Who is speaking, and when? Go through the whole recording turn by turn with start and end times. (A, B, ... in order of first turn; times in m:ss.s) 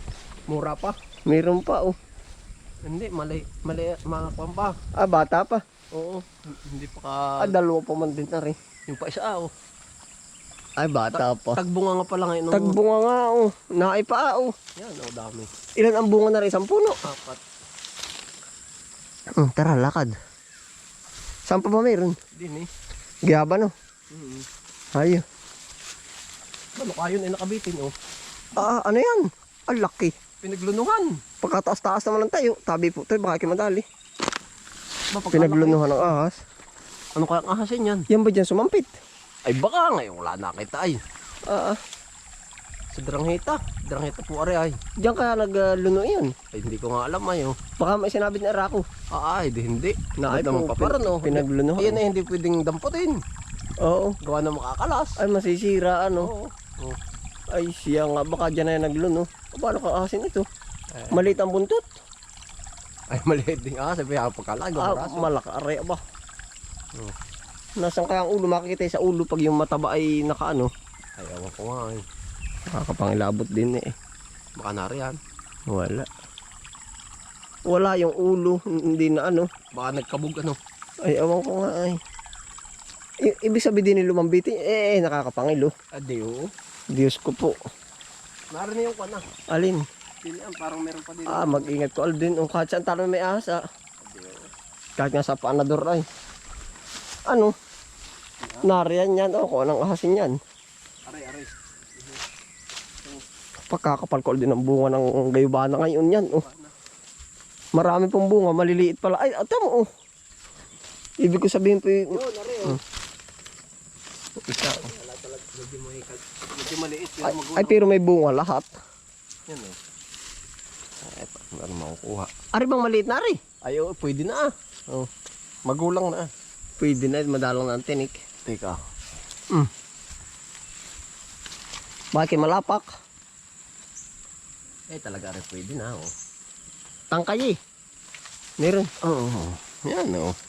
0:00.5-0:01.0 A
0:01.3-0:01.9 B
0:02.8-0:04.8 A
0:05.0-0:05.6 B
0:05.9-0:07.5 A
0:07.4-0:08.6 B
0:08.9-0:09.5 A
0:10.8-0:11.6 B
0:11.1-0:12.8 A
0:12.5-0:14.6 B
0:14.8-0:15.5 A
0:15.8-0:17.0 B
0:17.0-0:17.4 A
0:19.4-0:20.1 B
0:21.5-0:22.2 B
0:22.3-0:22.7 A
0:23.3-0:23.7 B
0:24.1-0:24.4 A
0:24.9-0:25.2 B
0:26.8-0:27.9 A
0:28.6-0:30.1 B
0:30.4-0:31.1 A
0:31.4-0:33.8 B
0:35.1-0:36.0 A
0:35.3-0:36.4 B
0:37.2-0:38.0 A
0:38.1-0:38.9 B
0:39.4-0:41.0 A
0:41.5-0:41.8 B
0:42.9-0:44.8 A
0:45.0-0:46.3 B
0:46.5-0:47.6 A
0:47.8-0:48.8 B
0:49.1-0:53.2 A
0:50.2-0:52.0 B
0:53.8-0:54.2 B
0:54.2-0:55.2 A
0:55.2-0:56.3 B
0:56.2-0:57.0 A
0:57.5-1:00.4 B
1:00.9-1:01.4 A
1:01.1-1:01.8 B
1:03.1-1:05.3 A
1:04.8-1:06.0 B
1:07.8-1:10.7 B
1:11.2-1:12.0 A
1:12.7-1:13.9 B
1:14.6-1:15.2 A
1:15.7-1:16.1 B
1:17.7-1:19.5 B
1:19.7-1:20.6 A
1:21.0-1:22.0 B
1:23.2-1:25.7 B
1:25.9-1:26.5 A
1:26.9-1:27.6 B
1:28.5-1:29.2 A
1:29.5-1:29.8 B
1:30.2-1:31.7 A
1:31.3-1:33.6 B
1:34.0-1:34.5 A
1:35.0-1:36.0 B
1:38.4-1:38.7 A
1:38.6-1:40.4 B
1:41.0-1:42.2 A
1:43.7-1:46.4 B
1:46.2-1:46.7 A
1:47.7-1:49.9 B
1:51.2-1:52.8 B
1:52.1-1:52.8 A
1:54.5-1:54.9 B
1:54.6-1:58.0 A
1:57.2-1:58.7 B
1:59.5-1:59.8 A
2:01.0-2:02.3 A
2:02.5-2:03.4 B
2:03.6-2:05.1 A
2:05.6-2:06.3 A
2:06.8-2:08.3 B
2:08.4-2:08.8 A
2:12.1-2:12.9 B
2:14.9-2:16.1 A
2:17.1-2:17.6 B
2:18.6-2:18.9 B
2:19.0-2:20.3 A